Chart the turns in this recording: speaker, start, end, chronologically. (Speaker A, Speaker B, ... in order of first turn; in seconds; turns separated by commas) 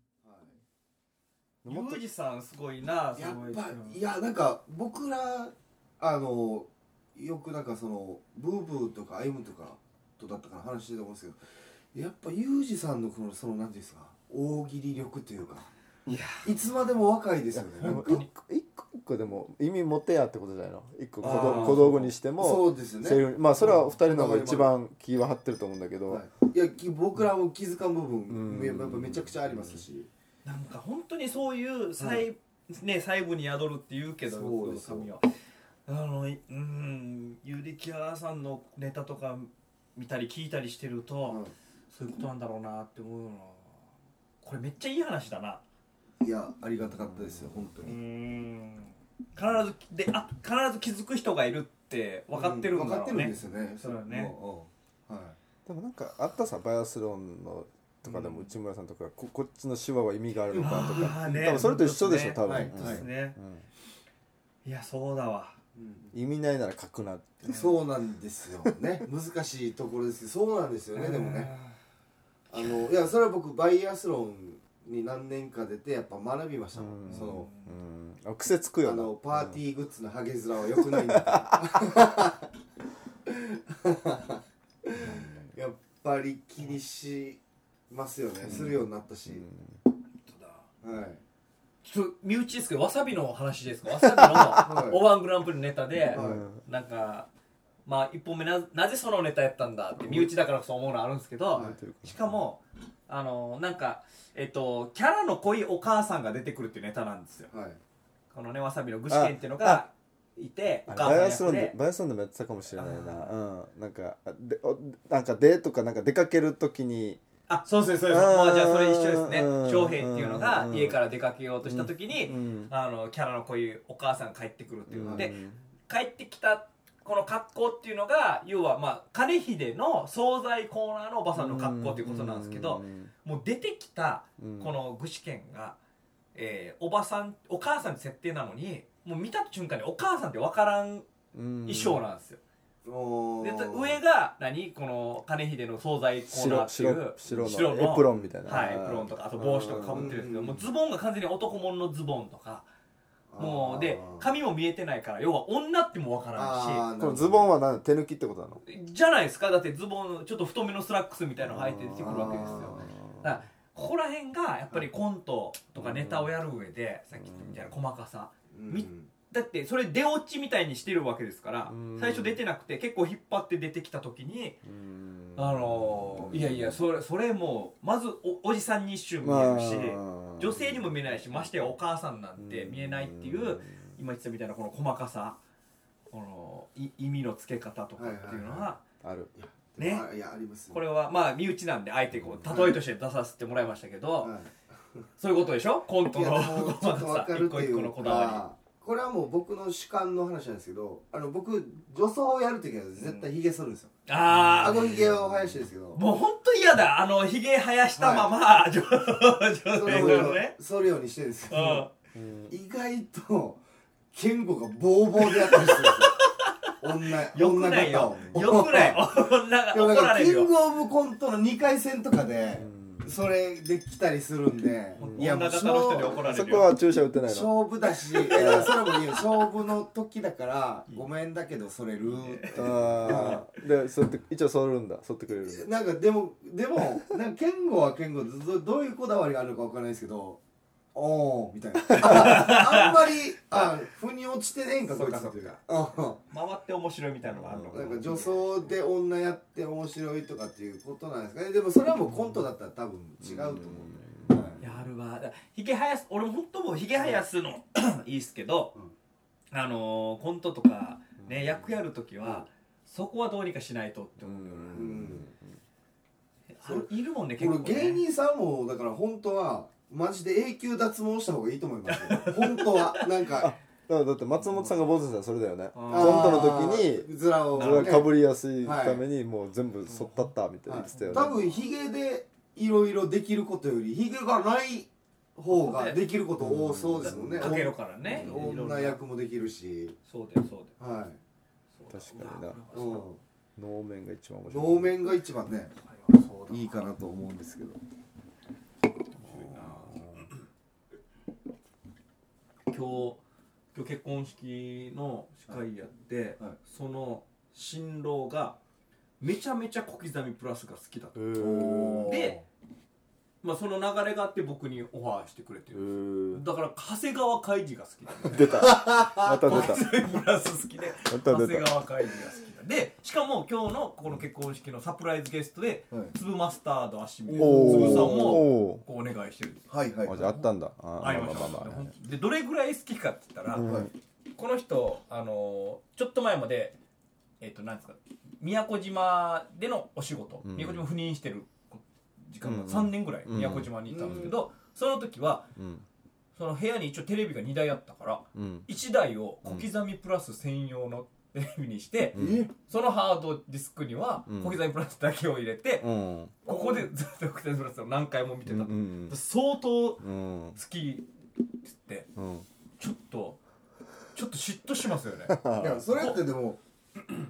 Speaker A: 0.2-0.6, Speaker B: 1.6-2.0, Speaker C: 1.6-4.0, Speaker A: 3.1-11.4, Speaker A: 11.9-15.7, Speaker C: 16.1-16.4, Speaker A: 16.4-18.1, Speaker B: 17.5-26.2, Speaker C: 17.8-18.3, Speaker C: 21.2-22.1, Speaker A: 21.2-24.7, Speaker A: 26.1-30.1, Speaker B: 28.3-29.8, Speaker C: 30.4-35.3, Speaker A: 32.0-32.2, Speaker A: 34.2-35.1, Speaker C: 35.9-43.7, Speaker A: 41.3-41.5, Speaker C: 44.4-45.6, Speaker A: 46.2-47.9, Speaker B: 47.1-47.6, Speaker C: 47.8-54.3, Speaker A: 52.3-55.4, Speaker B: 55.6-63.7, Speaker C: 60.5-63.4, Speaker A: 60.9-61.2, Speaker A: 62.4-63.0, Speaker C: 64.6-65.6, Speaker A: 65.7-66.1, Speaker B: 66.1-67.5, Speaker C: 67.4-67.7, Speaker A: 67.5-71.5, Speaker C: 70.9-71.8, Speaker A: 72.5-77.5, Speaker B: 76.7-79.6, Speaker C: 77.1-77.7, Speaker A: 78.8-82.5, Speaker B: 80.8-81.8, Speaker A: 83.2-87.4, Speaker B: 85.0-85.5, Speaker A: 87.9-89.5, Speaker B: 88.5-88.8, Speaker B: 89.3-89.8, Speaker C: 90.3-90.6, Speaker A: 90.8-91.2, Speaker C: 91.8-97.3, Speaker B: 94.1-94.6, Speaker A: 94.6-95.1, Speaker A: 96.1-96.4, Speaker B: 96.1-96.6, Speaker C: 97.8-107.5, Speaker B: 100.0-100.3, Speaker A: 101.5-101.8, Speaker B: 101.5-102.4, Speaker A: 107.5-107.8, Speaker C: 108.3-111.7, Speaker B: 109.1-109.8, Speaker B: 110.9-117.2, Speaker C: 112.7-113.3, Speaker C: 117.5-125.4, Speaker B: 118.0-121.0, Speaker B: 121.6-122.7, Speaker B: 124.9-125.6, Speaker A: 125.1-125.3, Speaker C: 125.9-135.8, Speaker B: 131.3-133.1, Speaker B: 134.4-134.7, Speaker C: 136.3-141.1, Speaker B: 141.3-142.0, Speaker C: 141.6-142.4, Speaker A: 142.8-144.0, Speaker C: 143.4-152.7, Speaker B: 146.3-150.2, Speaker A: 149.9-150.6, Speaker A: 153.3-154.3, Speaker C: 153.4-156.9, Speaker A: 156.3-157.5, Speaker B: 157.0-158.6, Speaker C: 158.6-174.6, Speaker B: 161.4-163.3, Speaker A: 162.0-162.9, Speaker B: 165.8-166.3, Speaker B: 167.2-167.7, Speaker A: 168.5-169.1, Speaker B: 171.7-172.4, Speaker B: 174.6-176.8, Speaker C: 175.3-185.4, Speaker B: 179.2-181.6, Speaker B: 182.4-183.9, Speaker C: 186.1-188.8, Speaker A: 188.0-188.7, Speaker B: 189.0-189.3, Speaker A: 189.4-190.8, Speaker C: 189.8-190.1, Speaker C: 190.7-194.3, Speaker A: 192.4-192.8, Speaker A: 194.2-194.5, Speaker C: 195.2-198.4, Speaker A: 196.1-203.9, Speaker C: 204.1-205.1, Speaker A: 204.5-206.0, Speaker C: 205.9-210.6, Speaker A: 207.9-208.3, Speaker A: 209.7-211.9, Speaker B: 209.9-210.3, Speaker C: 211.5-211.9, Speaker B: 212.1-212.6, Speaker A: 212.5-213.6, Speaker A: 214.1-216.3, Speaker C: 215.2-220.5, Speaker A: 216.8-219.1, Speaker B: 218.1-218.4, Speaker A: 219.7-226.2, Speaker B: 222.6-223.1, Speaker C: 224.9-226.7, Speaker B: 225.0-225.3, Speaker B: 226.2-227.5, Speaker A: 227.2-233.5, Speaker C: 227.9-229.4, Speaker B: 228.3-228.7, Speaker C: 232.0-233.4, Speaker B: 232.5-235.7, Speaker A: 235.4-240.4, Speaker A: 240.9-246.2, Speaker C: 241.9-242.9, Speaker C: 244.9-245.6, Speaker C: 246.3-248.4, Speaker B: 247.2-248.2, Speaker A: 247.7-254.6, Speaker B: 253.2-254.8, Speaker C: 254.6-258.7, Speaker C: 259.5-265.0, Speaker B: 261.2-261.8, Speaker B: 264.2-265.5, Speaker A: 264.7-265.3, Speaker C: 266.5-268.0, Speaker A: 266.6-273.5, Speaker C: 271.9-273.2, Speaker B: 273.3-281.6, Speaker C: 275.7-276.6, Speaker A: 275.9-279.0, Speaker C: 277.6-278.0, Speaker C: 279.9-280.3, Speaker A: 280.7-290.0, Speaker C: 280.9-281.5, Speaker C: 285.5-286.0, Speaker B: 286.4-288.4, Speaker C: 287.0-289.0, Speaker C: 290.1-290.7, Speaker A: 290.8-291.2, Speaker C: 291.7-293.1, Speaker B: 291.9-292.7, Speaker A: 292.7-293.2, Speaker B: 293.6-295.0, Speaker A: 294.5-295.7, Speaker C: 295.8-296.8, Speaker A: 296.5-297.8, Speaker C: 299.1-299.9, Speaker B: 299.3-300.3, Speaker C: 302.7-303.2, Speaker C: 303.7-308.6, Speaker C: 309.2-311.2, Speaker B: 311.1-312.2, Speaker A: 311.4-312.4, Speaker C: 312.0-312.4, Speaker C: 313.4-329.6, Speaker B: 315.7-316.4, Speaker B: 318.2-319.8, Speaker A: 318.5-319.8, Speaker B: 321.1-321.8, Speaker A: 327.3-328.4, Speaker B: 327.4-328.8, Speaker A: 329.7-330.3, Speaker B: 330.1-331.9, Speaker C: 331.0-333.7, Speaker B: 333.5-333.9, Speaker A: 333.6-333.9, Speaker C: 334.4-336.8, Speaker C: 337.4-345.5, Speaker B: 340.4-340.9, Speaker B: 342.4-344.3, Speaker A: 343.9-344.3, Speaker B: 345.6-345.8, Speaker C: 346.4-355.9, Speaker B: 348.3-348.7, Speaker B: 349.4-349.7, Speaker B: 352.1-352.5, Speaker A: 352.1-352.5, Speaker B: 354.2-354.6, Speaker B: 355.8-356.4, Speaker C: 356.4-361.1, Speaker A: 356.4-356.8, Speaker B: 358.4-359.1, Speaker B: 360.0-360.6, Speaker C: 361.6-362.1, Speaker B: 362.1-362.5, Speaker C: 362.8-363.4, Speaker C: 364.1-365.4, Speaker B: 365.3-366.1, Speaker A: 365.6-366.6